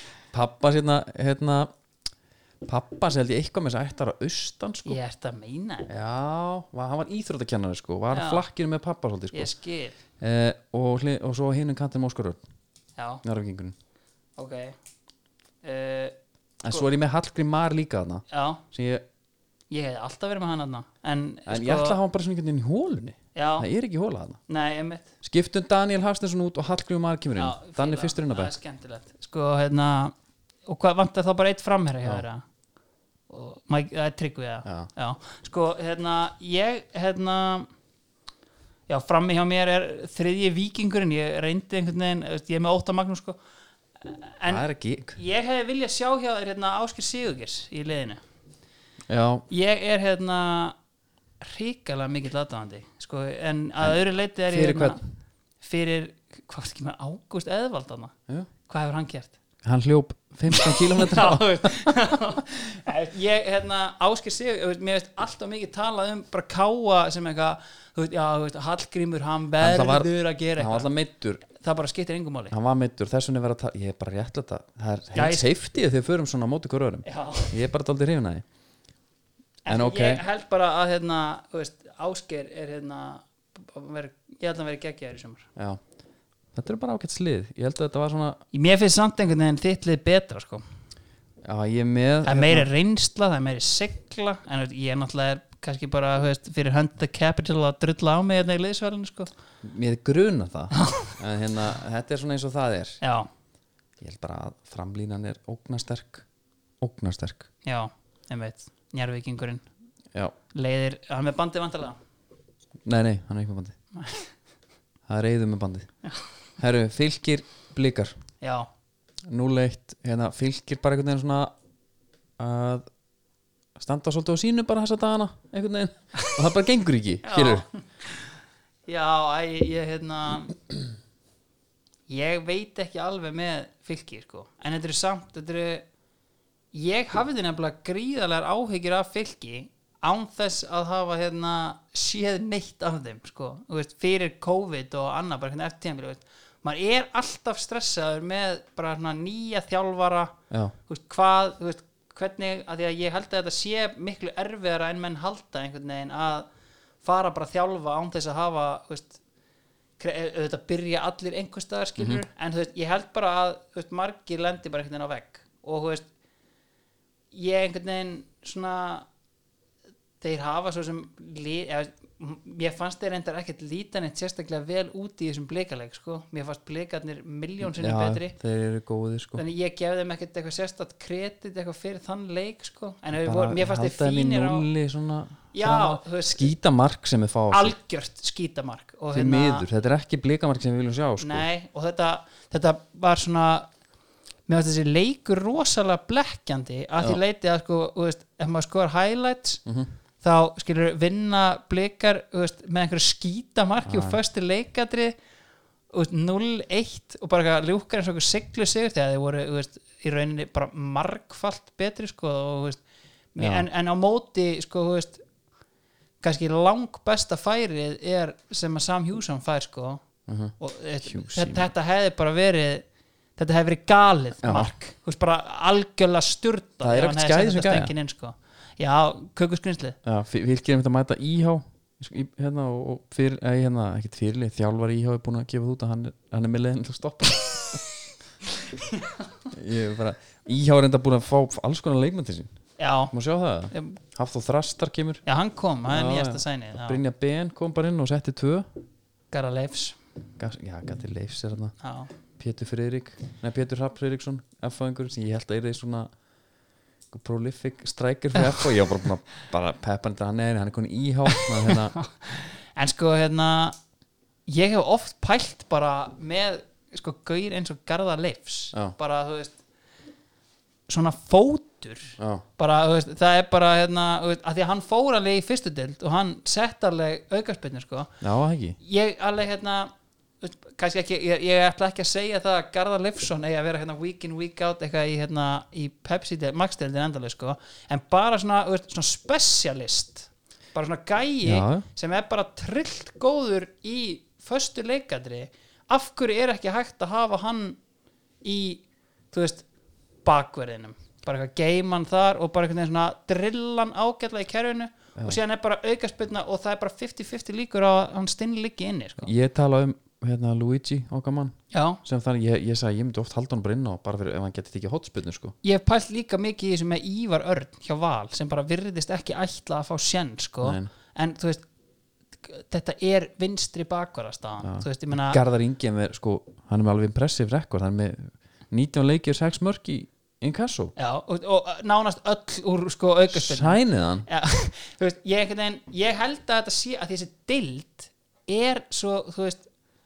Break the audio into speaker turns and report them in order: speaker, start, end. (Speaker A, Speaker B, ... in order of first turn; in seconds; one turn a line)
Speaker A: 0.3-1.7
Speaker A: 2.6-5.0
Speaker B: 4.9-5.9
Speaker A: 5.9-9.5
Speaker B: 8.1-8.4
Speaker B: 9.3-10.0
Speaker A: 10.2-12.4
Speaker B: 13.0-13.2
Speaker A: 13.2-13.8
Speaker B: 14.4-14.8
Speaker B: 15.6-16.2
Speaker A: 16.6-19.1
Speaker B: 18.3-18.6
Speaker B: 19.7-22.0
Speaker A: 21.5-24.4
Speaker B: 23.4-23.7
Speaker B: 24.5-25.1
Speaker A: 25.2-28.5
Speaker B: 27.4-30.1
Speaker B: 30.7-32.4
Speaker B: 33.3-37.7
Speaker A: 34.6-34.9
Speaker B: 38.9-43.4
Speaker B: 44.0-48.2
Speaker A: 44.5-45.2
Speaker A: 49.1-49.5
Speaker B: 49.5-50.8
Speaker B: 51.4-55.0
Speaker A: 53.8-55.0
Speaker B: 55.6-58.1
Speaker B: 58.7-59.4
Speaker A: 59.6-62.2
Speaker B: 60.5-70.9
Speaker A: 69.6-71.4
Speaker B: 71.5-72.5
Speaker A: 72.5-78.4
Speaker B: 75.2-75.5
Speaker B: 77.1-77.5
Speaker B: 79.7-85.5
Speaker A: 79.7-80.2
Speaker A: 86.5-88.4
Speaker B: 88.5-90.6
Speaker A: 91.4-92.7
Speaker B: 92.2-99.3
Speaker A: 99.6-103.0
Speaker B: 100.8-101.2
Speaker B: 103.0-103.3
Speaker A: 104.0-106.3
Speaker A: 106.8-107.5
Speaker B: 107.7-109.6
Speaker B: 110.5-112.0
Speaker A: 112.8-113.8
Speaker B: 114.0-114.3
Speaker A: 115.1-115.9
Speaker A: 116.6-118.2
Speaker B: 118.4-118.7
Speaker A: 119.3-121.5
Speaker A: 122.4-122.9
Speaker A: 123.8-127.7
Speaker B: 127.2-128.3
Speaker B: 128.9-130.6
Speaker B: 132.1-135.9
Speaker B: 136.7-150.3
Speaker B: 150.9-156.5
Speaker B: 157.0-159.2
Speaker B: 160.0-166.1
Speaker A: 162.0-162.2
Speaker B: 167.3-169.1
Speaker B: 170.2-178.4
Speaker A: 177.6-179.4
Speaker B: 179.4-184.7
Speaker A: 183.2-187.8
Speaker B: 185.5-186.5
Speaker B: 187.5-189.7
Speaker A: 189.1-191.5
Speaker B: 191.2-193.7
Speaker B: 194.5-199.6
Speaker B: 200.2-205.2
Speaker A: 203.8-204.2
Speaker B: 205.9-212.8
Speaker B: 213.3-215.2
Speaker A: 213.4-213.7
Speaker B: 216.2-220.0
Speaker A: 220.3-221.7
Speaker B: 220.6-222.8
Speaker B: 223.4-230.0
Speaker A: 224.4-224.7
Speaker A: 226.8-227.9
Speaker A: 230.0-237.8
Speaker B: 238.7-239.2
Speaker A: 239.5-242.5
Speaker B: 242.8-243.1
Speaker A: 243.1-245.2
Speaker B: 243.7-244.0
Speaker B: 245.3-247.0
Speaker A: 245.9-248.7
Speaker B: 249.3-250.0
Speaker A: 250.4-251.7
Speaker B: 251.8-252.1
Speaker A: 252.4-256.1
Speaker A: 257.1-261.9
Speaker B: 258.4-258.8
Speaker B: 261.3-263.8
Speaker B: 264.5-269.6
Speaker B: 270.9-278.1
Speaker A: 272.2-272.4
Speaker A: 278.2-278.8
Speaker B: 278.8-297.8
Speaker A: 291.4-291.9
Speaker B: 298.4-299.6
Speaker B: 300.2-309.3
Speaker A: 309.2-315.6
Speaker B: 311.7-312.0
Speaker B: 315.6-321.7
Speaker A: 320.6-320.9
Speaker B: 322.4-325.4
Speaker A: 324.6-330.9
Speaker B: 331.0-339.7
Speaker A: 333.3-334.3